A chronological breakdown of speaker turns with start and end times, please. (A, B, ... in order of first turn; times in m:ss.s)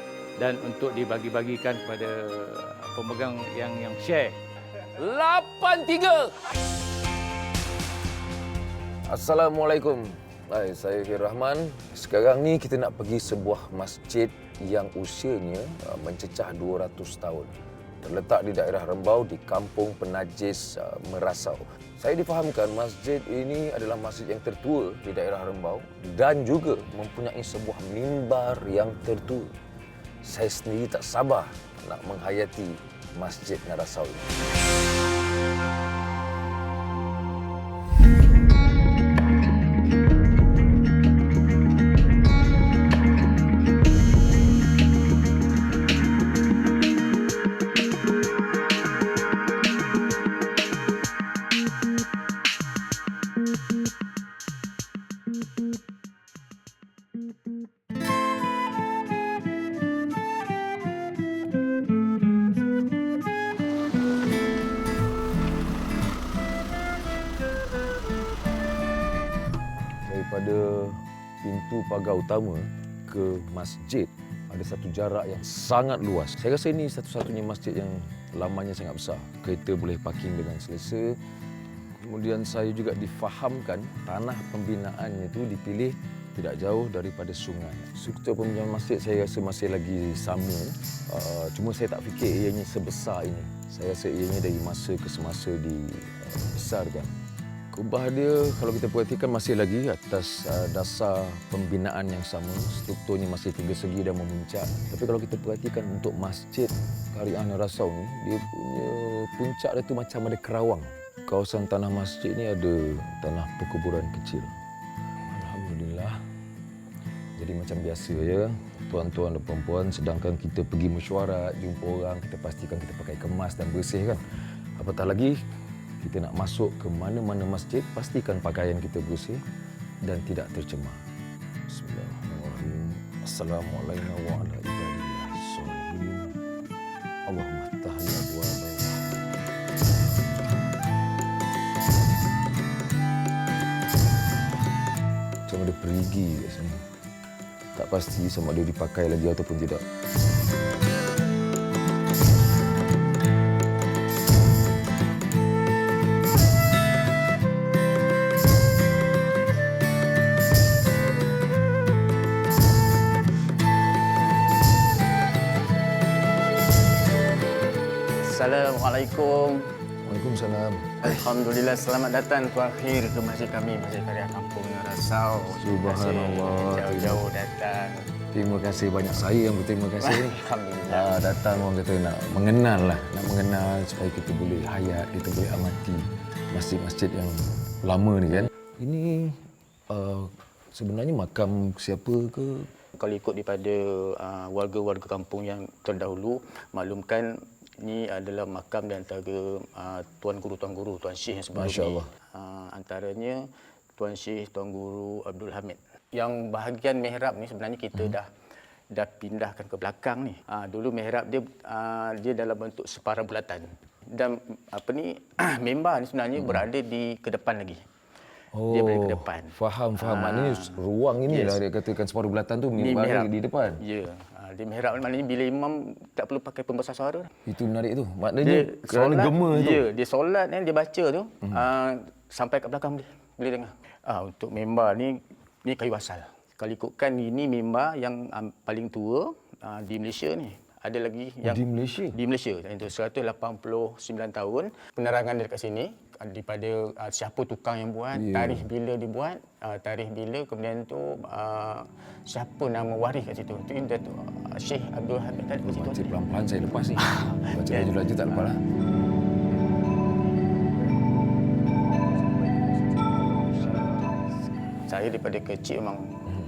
0:00.4-0:04.4 A
0:05.0-0:06.4 B
0:09.1-0:29.5 B
0:30.2-0:34.3 B
1:10.0-1:21.2 B
1:22.0-1:37.1 B
1:37.7-1:54.5 B
1:55.3-1:56.2 B
1:57.4-2:04.2 B
2:04.8-2:05.4 B
2:06.0-2:09.4 B
2:10.0-2:11.0 B
2:11.7-2:16.3 B
2:17.3-2:19.0 B
2:25.5-2:26.8 B
2:27.7-2:29.8 B
2:48.2-2:49.6 C
2:50.0-2:51.3 B
2:51.0-2:58.1 C
2:55.6-2:57.2 B
2:58.3-3:00.4 B
3:00.0-3:01.2 C
3:00.9-3:09.4 B
3:09.9-3:12.7 B
3:12.9-3:17.3 C
3:17.8-3:23.4 C
3:21.6-3:22.1 B
3:24.0-3:28.3 C
3:28.9-3:37.8 C
3:36.4-3:36.6 B
3:38.5-3:43.8 B
3:38.7-3:41.6 C
3:42.8-3:47.3 C
3:47.4-3:49.8 B
3:48.4-4:16.2 C
4:01.4-4:02.2 B
4:08.1-4:08.7 B
4:15.6-4:18.6 B
4:16.9-4:18.5 C
4:22.1-4:22.8 C
4:22.9-4:24.1 B
4:23.5-4:24.1 C
4:24.9-4:26.2 C